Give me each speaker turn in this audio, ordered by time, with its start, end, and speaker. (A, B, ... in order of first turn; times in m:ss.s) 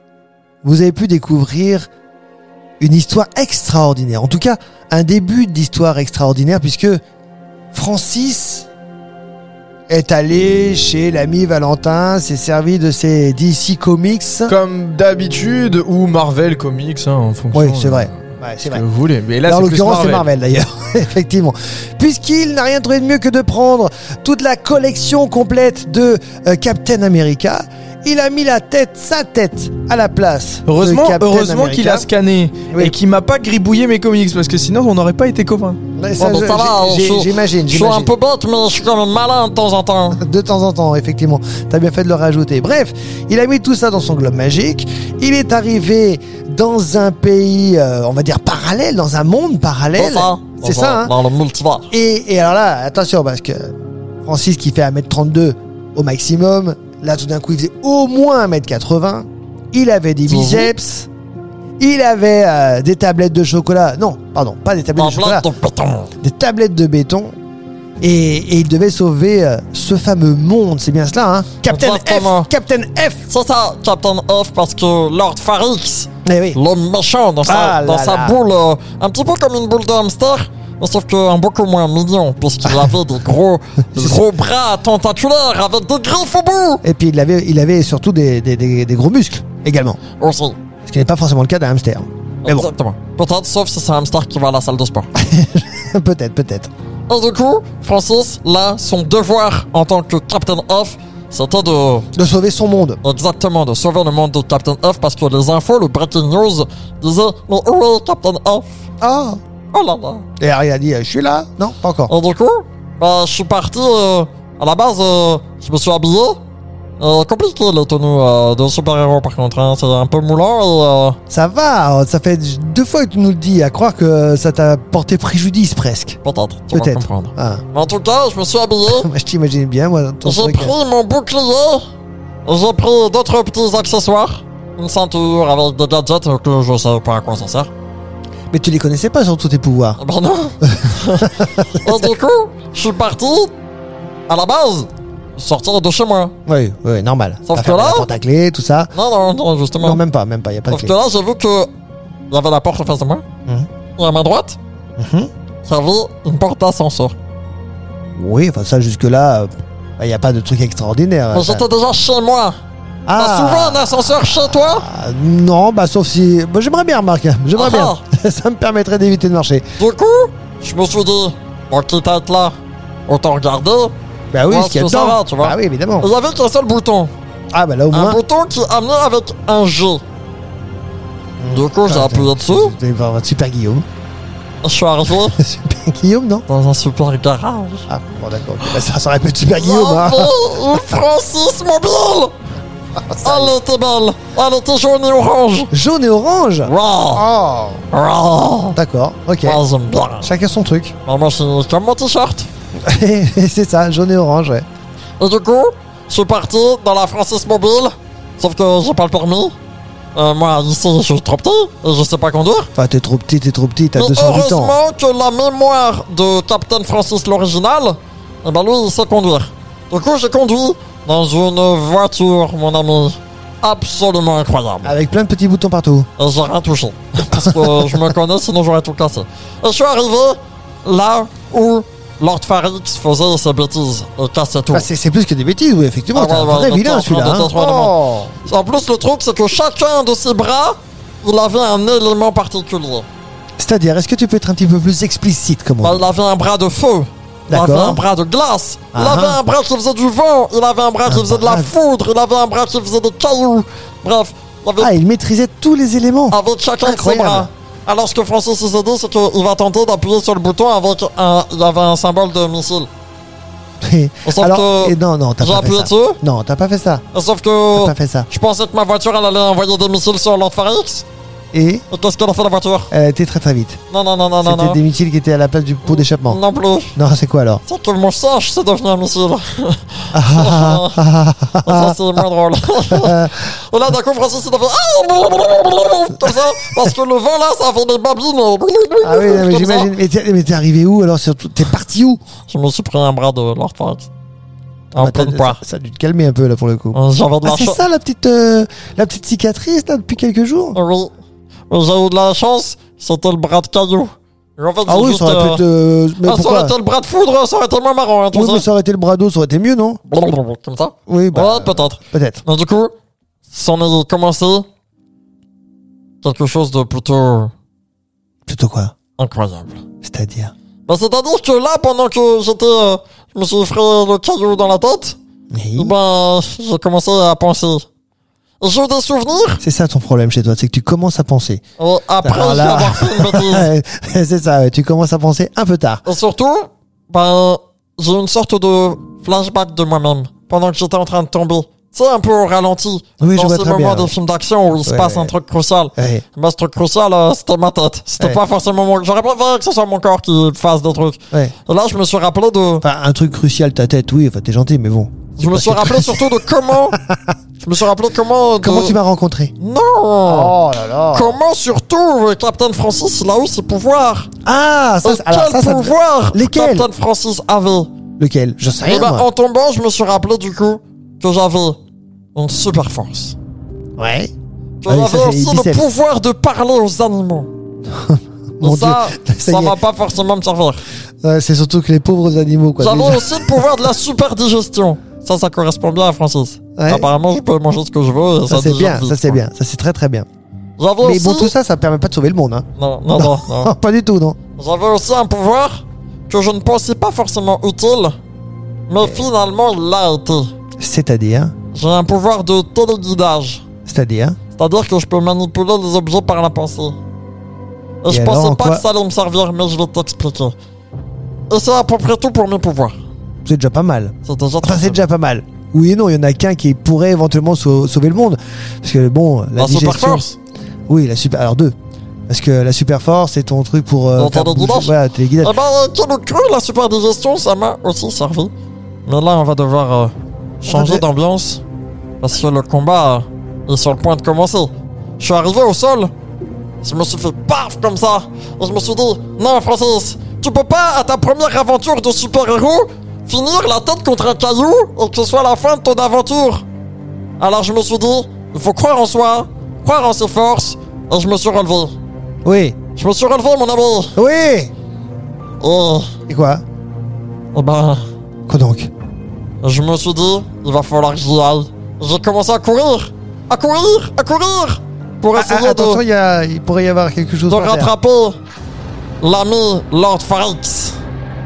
0:00.6-0:01.9 A
0:02.8-0:07.0 A
0:07.7-0:08.7 A
0:09.9-0:14.5 A
0:14.5-0:20.3 B
0:17.5-0:18.8 A
0:19.4-0:32.1 A
0:30.7-0:35.8 B
0:32.7-0:33.0 A
0:36.0-0:38.1 A
0:36.2-0:40.2 C
0:40.2-0:51.1 A
0:50.0-0:51.9 C
0:51.9-0:53.7 A
0:54.2-1:01.1 A
1:00.3-1:00.7 C
1:01.8-1:05.5 A
1:05.0-1:06.1 C
1:06.2-1:07.3 A
1:08.0-1:13.3 A
1:11.7-1:12.5 C
1:13.3-1:26.8 C
1:16.2-1:16.6 A
1:17.4-1:18.4 A
1:22.6-1:22.9 A
1:24.0-1:24.2 A
1:26.8-1:30.0 A
1:30.2-1:30.6 C
1:30.8-1:32.7 A
1:32.4-1:35.1 C
1:35.2-1:36.7 A
1:37.1-1:42.1 C
1:42.1-1:43.0 A
1:43.0-1:48.7 C
1:49.0-1:49.4 A
1:49.7-1:50.2 C
1:50.4-1:52.1 A
1:52.1-1:56.4 C
1:57.0-2:01.2 C
2:01.3-2:06.2 A
2:06.2-2:09.1 C
2:06.7-2:07.6 A
2:08.9-2:10.7 A
2:10.2-2:11.8 C
2:12.4-2:17.7 C
2:18.5-2:20.0 A
2:20.0-2:23.5 C
2:20.6-2:22.1 A
2:24.3-2:26.3 C
2:26.4-2:28.9 A
2:27.5-2:28.1 C
2:28.9-2:30.0 C
2:29.8-2:30.9 A
2:30.7-2:31.7 C
2:32.3-2:33.2 C
2:34.0-2:34.6 C
2:35.0-2:35.3 A
2:35.6-2:37.2 C
2:38.2-2:41.6 A
2:41.3-2:42.6 C
2:43.0-2:49.6 A
2:43.1-2:44.8 C
2:47.5-2:48.0 C
2:49.8-2:52.6 C
2:53.1-2:53.9 C
2:54.3-2:56.1 A
2:54.5-2:57.1 C
2:57.5-2:58.2 A
2:57.9-3:00.0 C
3:01.4-3:03.8 A
3:01.5-3:02.7 C
3:04.6-3:05.4 C
3:05.2-3:06.4 A
3:06.5-3:07.8 C
3:07.9-3:10.3 A
3:09.5-3:12.3 C
3:13.0-3:13.5 A
3:13.2-3:15.7 C
3:15.7-3:17.8 A
3:16.6-3:17.2 C
3:17.9-3:18.8 C
3:18.7-3:19.6 A
3:19.4-3:20.3 C
3:20.2-3:20.9 A
3:21.0-3:22.5 C
3:22.8-3:24.6 A
3:25.2-3:29.5 C
3:30.1-3:32.7 C
3:32.7-3:34.8 A
3:34.0-3:45.0 C
3:44.8-3:46.1 A
3:46.2-3:54.9 C
3:47.3-3:48.1 A
3:54.7-3:58.3 A
3:56.1-4:03.0 C
4:03.6-4:06.0 A
4:05.8-4:15.0 C
4:07.5-4:08.0 A
4:08.9-4:09.4 A
4:11.0-4:11.7 A
4:14.8-4:17.5 A
4:16.3-4:22.9 C
4:23.8-4:27.0 A
4:24.2-4:26.2 C
4:27.1-4:31.0 C
4:27.7-4:28.3 A
4:31.5-4:31.8 A
4:31.9-4:32.9 C
4:32.9-4:33.8 A
4:33.9-4:34.8 C
4:34.4-4:36.4 A
4:35.8-4:36.9 C
4:37.0-4:37.6 A
4:37.6-4:41.0 C
4:40.1-4:42.0 A
4:41.6-4:49.9 C
4:42.9-4:43.4 A
4:49.0-4:52.2 A
4:52.5-4:54.1 C
4:54.9-5:00.8 A
4:54.9-4:55.6 C
4:56.9-4:57.8 C
5:00.7-5:01.1 C
5:01.7-5:05.6 C
5:04.9-5:06.7 A
5:06.2-5:08.6 C
5:08.3-5:10.0 A
5:10.1-5:12.9 C
5:11.1-5:12.4 A
5:13.5-5:14.6 C
5:16.2-5:17.5 C
5:18.5-5:18.9 A
5:19.2-5:19.8 C
5:20.0-5:20.5 A
5:20.9-5:25.2 C
5:25.5-5:25.9 A
5:25.8-5:27.8 C
5:28.6-5:29.6 C
5:29.6-5:31.6 A
5:31.8-5:33.7 C
5:32.2-5:36.0 A
5:36.0-5:52.8 C
5:43.2-5:44.1 A
5:44.8-5:45.3 A
5:46.0-5:46.2 A
5:52.8-5:57.3 A
5:55.4-5:57.0 C
5:57.6-5:59.0 C
5:58.6-5:59.5 A
5:59.6-6:00.6 C
6:00.2-6:01.4 A
6:01.1-6:04.3 C
6:04.4-6:06.9 A
6:05.0-6:07.9 C
6:08.2-6:09.3 A
6:08.8-6:11.8 C
6:12.3-6:13.4 C
6:14.0-6:14.3 A
6:14.8-6:17.5 C
6:14.8-6:15.8 A
6:17.9-6:19.8 A
6:18.6-6:20.8 C
6:21.2-6:23.8 A
6:22.8-6:29.4 C
6:26.8-6:27.1 A
6:28.5-6:30.2 A
6:30.8-6:31.5 C
6:31.0-6:34.4 A
6:32.8-6:33.7 C
6:34.6-6:38.2 C
6:38.9-6:40.5 C
6:39.0-6:39.3 A
6:40.8-6:41.5 A
6:41.7-6:43.6 C
6:43.8-6:44.4 A
6:44.5-6:47.0 C
6:48.0-6:50.5 C
6:48.1-6:48.8 A
6:51.5-6:53.0 C
6:53.4-7:00.2 A
6:54.2-6:55.0 C
6:59.6-7:00.4 C
7:00.9-7:01.7 A
7:02.3-7:05.6 A
7:04.2-7:08.5 C
7:09.0-7:11.6 C
7:10.6-7:11.0 A
7:12.2-7:16.1 C
7:16.8-7:26.6 C
7:27.4-7:31.9 C
7:32.4-7:32.8 A
7:33.0-7:34.1 C
7:34.2-7:34.7 A
7:35.6-7:36.1 C
7:36.3-7:36.6 A
7:37.5-7:38.0 C
7:38.5-7:38.9 A
7:39.6-7:46.0 C
7:45.3-7:47.9 A
7:47.5-7:48.4 C
7:49.2-7:51.0 C